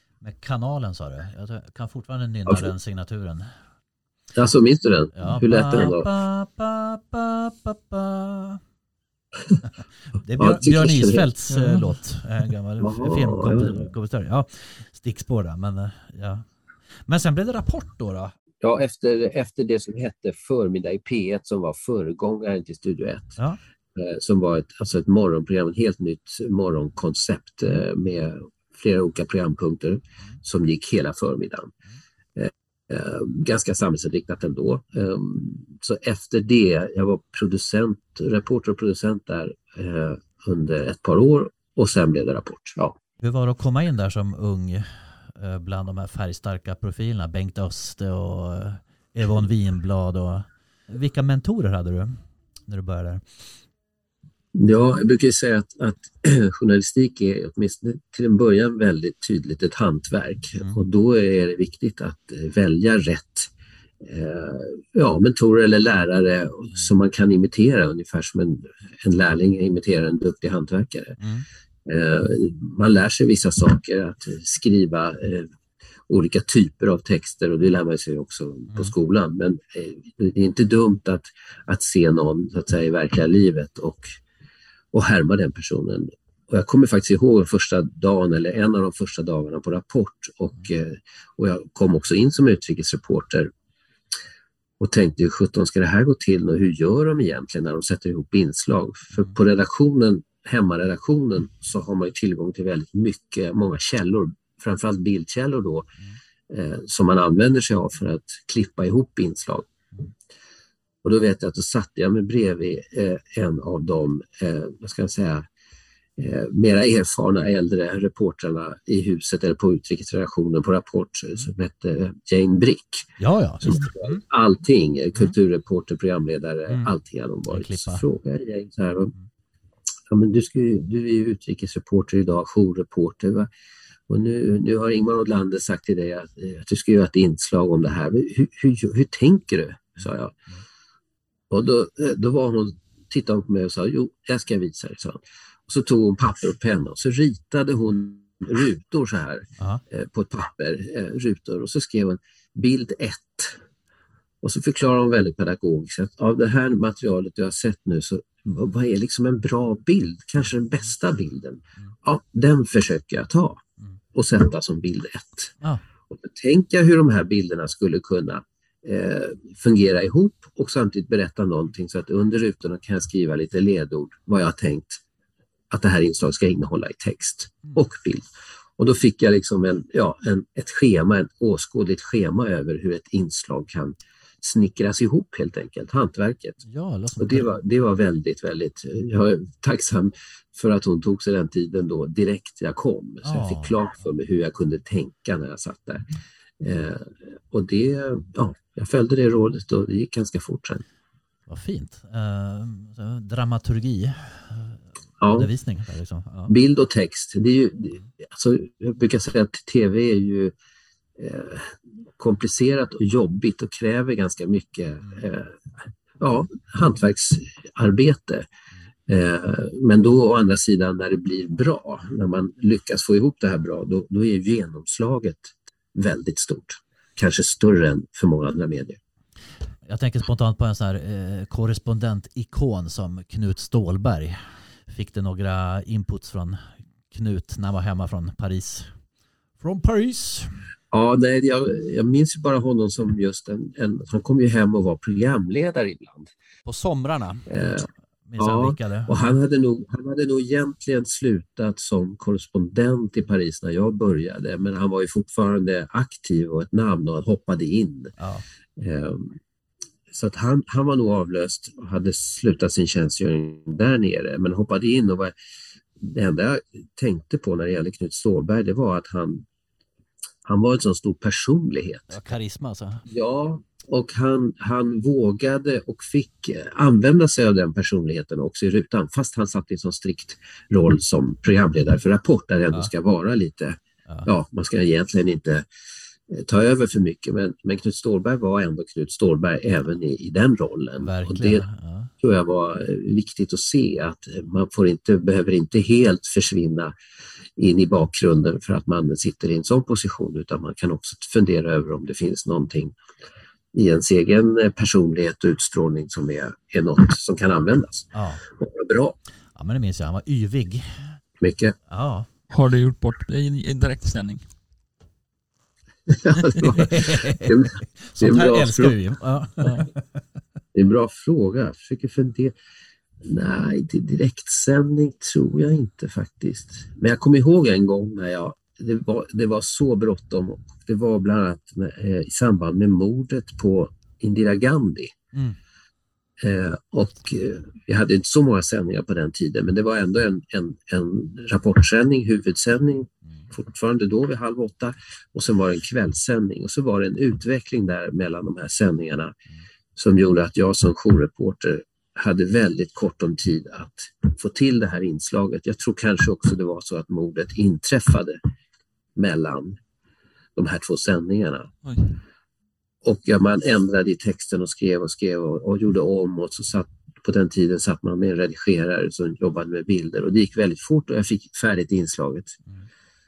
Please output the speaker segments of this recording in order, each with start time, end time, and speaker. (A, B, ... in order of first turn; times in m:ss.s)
0:00.2-0:03.5 A
0:04.3-0:06.1 B
0:05.1-0:08.6 A
0:10.2-0:16.4 A
0:10.4-0:11.3 B
0:11.5-0:11.9 C
0:12.8-0:13.8 B
0:17.0-0:18.3 A
0:18.6-0:23.4 B
0:23.9-0:31.7 B
0:32.3-0:43.0 B
0:43.2-0:53.4 A
0:54.5-1:11.2 B
1:11.2-1:11.4 A
1:11.8-1:15.5 B
1:16.1-1:24.1 B
1:24.9-1:33.5 B
1:34.8-1:45.9 B
1:46.5-1:49.7 B
1:51.0-1:55.5 B
1:56.2-2:09.1 B
2:03.2-2:04.2 A
2:07.5-2:08.0 A
2:10.1-2:13.5 B
2:14.1-2:20.4 B
2:21.5-2:33.6 B
2:34.4-2:43.6 B
2:44.1-2:45.5 B
2:46.1-2:55.0 B
2:55.7-2:58.3 B
2:58.8-3:06.6 B
3:06.6-3:07.6 A
3:07.2-3:16.0 B
3:13.2-3:13.8 A
3:16.6-3:20.8 B
3:21.5-3:26.5 A
3:25.2-3:25.5 B
3:26.5-3:30.5 B
3:31.2-3:35.6 B
3:36.2-3:38.5 B
3:39.1-3:49.0 B
3:49.8-3:59.0 A
3:59.6-4:00.6 A
4:00.9-4:06.3 B
4:06.6-4:07.5 A
4:07.5-4:18.1 B
4:08.2-4:09.2 A
4:18.2-4:18.4 A
4:18.8-4:19.4 B
4:20.1-4:25.3 B
4:26.0-4:29.4 B
4:30.4-4:32.2 B
4:32.1-4:33.0 A
4:33.1-4:45.7 B
4:46.3-4:51.6 B
4:51.0-4:52.1 A
4:52.2-4:56.9 B
4:57.6-5:03.0 B
5:03.7-5:09.2 B
5:08.1-5:08.4 A
5:09.5-5:11.2 A
5:11.4-5:11.8 B
5:11.9-5:12.3 A
5:12.5-5:14.4 C
5:16.1-5:19.0 B
5:16.6-5:20.2 A
5:19.6-5:19.9 C
5:20.7-5:22.5 B
5:23.2-5:35.1 B
5:35.3-5:35.6 A
5:36.4-5:49.4 B
5:50.0-5:58.4 B
5:59.2-5:59.8 B
6:00.5-6:01.7 B
6:01.8-6:02.2 C
6:03.0-6:12.6 B